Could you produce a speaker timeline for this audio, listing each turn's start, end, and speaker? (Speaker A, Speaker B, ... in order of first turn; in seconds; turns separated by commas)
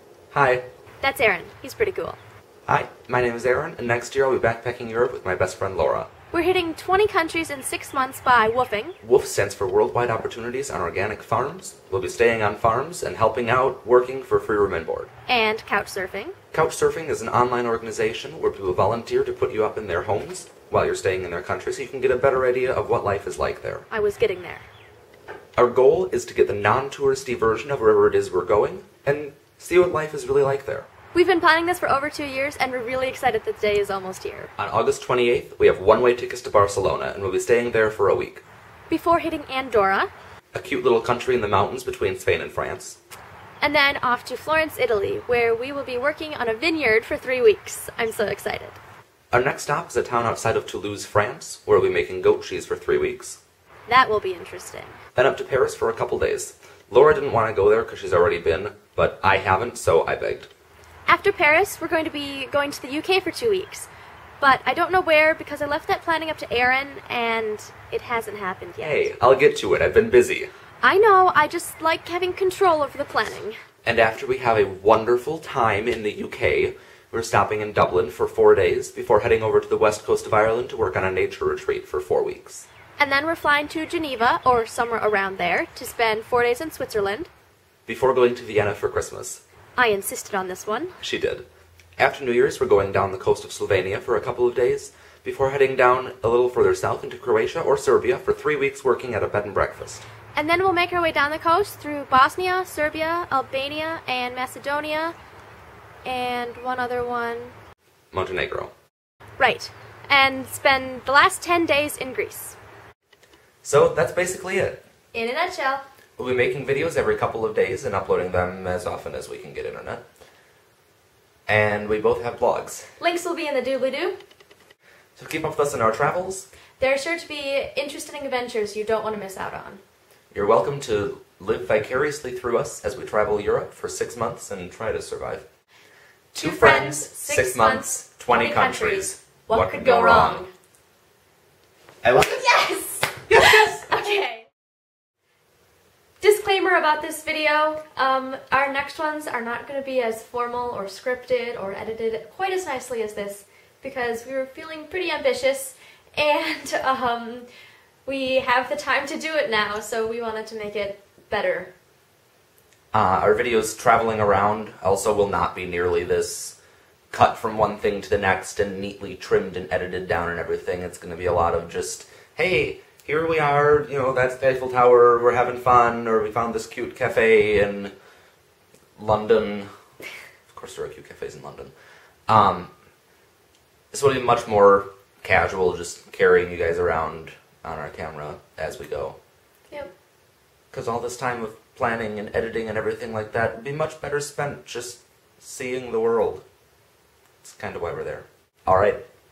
Speaker A: 0.3-0.6, Speaker B: 1.0-2.2, Speaker A: 2.7-6.1, Speaker B: 6.3-8.9, Speaker A: 9.0-15.1, Speaker B: 15.3-16.3, Speaker A: 16.5-23.8, Speaker B: 23.9-24.6, Speaker A: 25.6-30.9, Speaker B: 31.1-34.5, Speaker A: 34.6-38.4, Speaker B: 38.9-40.1, Speaker A: 40.5-43.0, Speaker B: 43.6-48.8, Speaker A: 49.3-53.4, Speaker B: 53.9-55.0, Speaker A: 55.1-60.5, Speaker B: 61.1-63.9, Speaker B: 64.4-69.1, Speaker A: 68.8-70.5, Speaker B: 70.8-73.6, Speaker A: 73.8-82.7, Speaker B: 83.0-87.3, Speaker A: 87.8-89.4, Speaker B: 89.8-90.9, Speaker A: 91.0-91.5, Speaker A: 92.0-100.0, Speaker B: 100.3-105.1, Speaker B: 106.0-107.5, Speaker A: 108.1-108.7, Speaker B: 109.4-112.6, Speaker A: 113.6-114.8, Speaker B: 115.1-115.8, Speaker A: 116.2-120.0, Speaker A: 121.5-122.9, Speaker B: 123.0-124.2, Speaker A: 125.2-126.5, Speaker B: 126.8-129.8, Speaker A: 130.3-135.4, Speaker B: 136.3-140.5, Speaker A: 136.4-140.4, Speaker A: 142.0-142.6, Speaker B: 142.4-144.4, Speaker A: 143.3-143.8, Speaker B: 146.2-157.5, Speaker B: 158.1-161.7, Speaker A: 162.9-166.6, Speaker A: 167.1-177.9, Speaker A: 179.0-179.7, Speaker A: 180.5-181.7, Speaker A: 182.3-182.7, Speaker A: 183.9-189.2, Speaker A: 190.7-196.4, Speaker A: 197.4-199.0